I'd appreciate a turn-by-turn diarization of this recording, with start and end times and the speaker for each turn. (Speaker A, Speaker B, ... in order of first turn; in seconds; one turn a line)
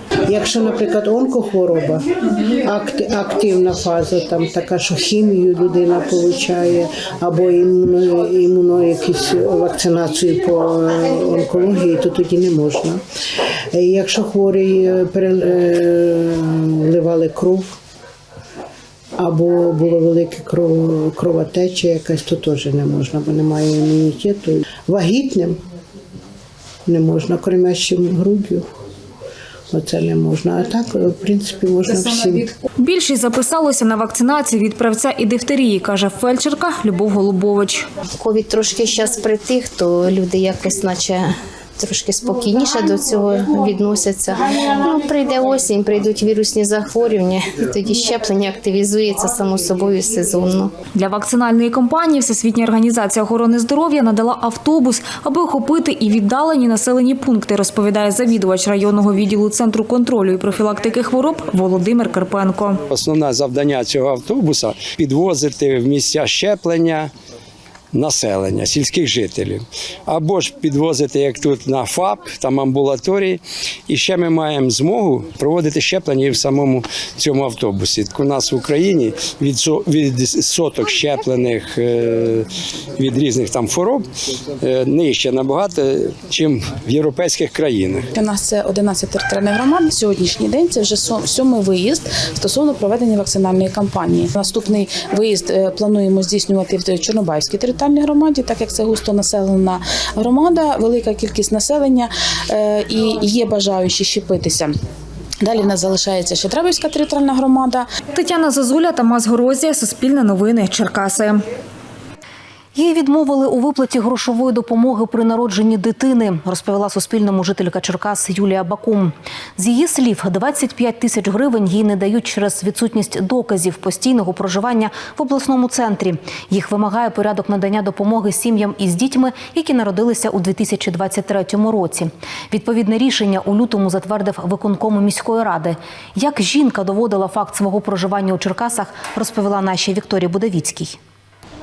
Speaker A: 0.3-2.0
Speaker A: 2.7-13.0
Speaker A: 13.7-17.7
Speaker A: 19.2-25.6
Speaker A: 26.9-28.6
Speaker A: 29.7-32.5
Speaker B: 32.8-37.9
Speaker C: 38.1-50.7
Speaker B: 50.9-62.8
Speaker D: 62.9-67.1
Speaker D: 67.9-84.1
Speaker D: 84.6-88.2
Speaker E: 88.2-104.7
Speaker E: 105.4-107.9
Speaker B: 108.1-111.4
Speaker F: 112.8-141.0